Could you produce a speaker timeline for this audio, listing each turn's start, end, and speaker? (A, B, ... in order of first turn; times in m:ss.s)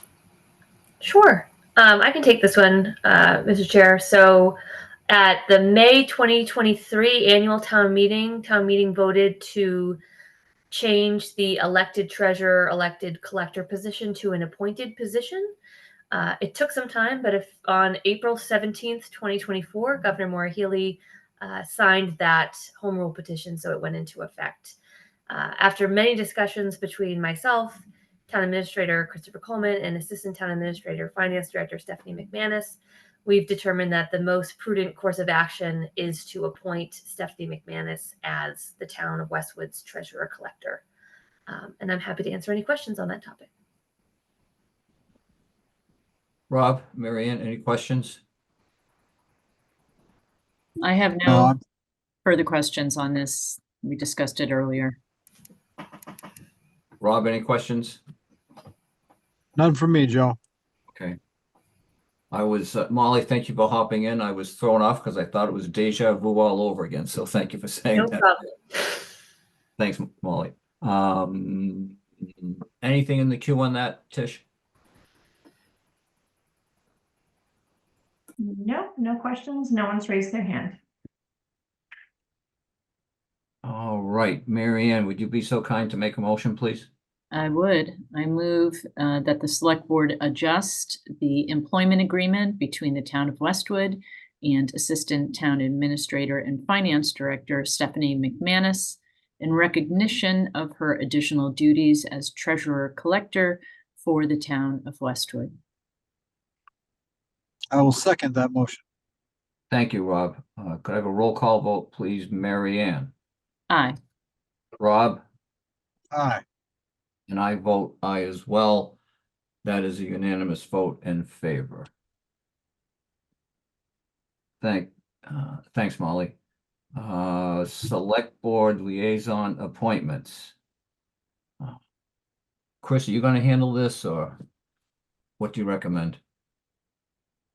0:01.0-0:04.6 A
0:05.1-0:10.0 A
0:10.7-0:15.5 A
0:16.1-0:24.8 A
0:25.3-0:40.8 A
0:41.5-0:43.5 A
0:46.5-0:48.2 B
0:50.8-0:51.5 C
0:51.3-0:51.5 D
0:52.2-0:55.0 C
0:57.0-0:58.0 B
0:59.6-1:00.4 D
1:02.3-1:08.2 B
1:08.0-1:09.1 A
1:09.8-1:14.4 B
1:18.4-1:20.8 E
1:23.6-1:26.9 B
1:27.3-1:45.5 C
1:47.7-1:48.8 D
1:49.7-1:53.1 B
1:53.7-1:54.0 C
1:54.8-1:55.2 B
1:56.1-1:56.4 D
1:57.3-1:59.0 B
1:59.6-2:01.9 B
2:04.6-2:06.3 B
2:07.0-2:10.5 B
2:12.8-2:14.4 B
2:15.4-2:16.2 B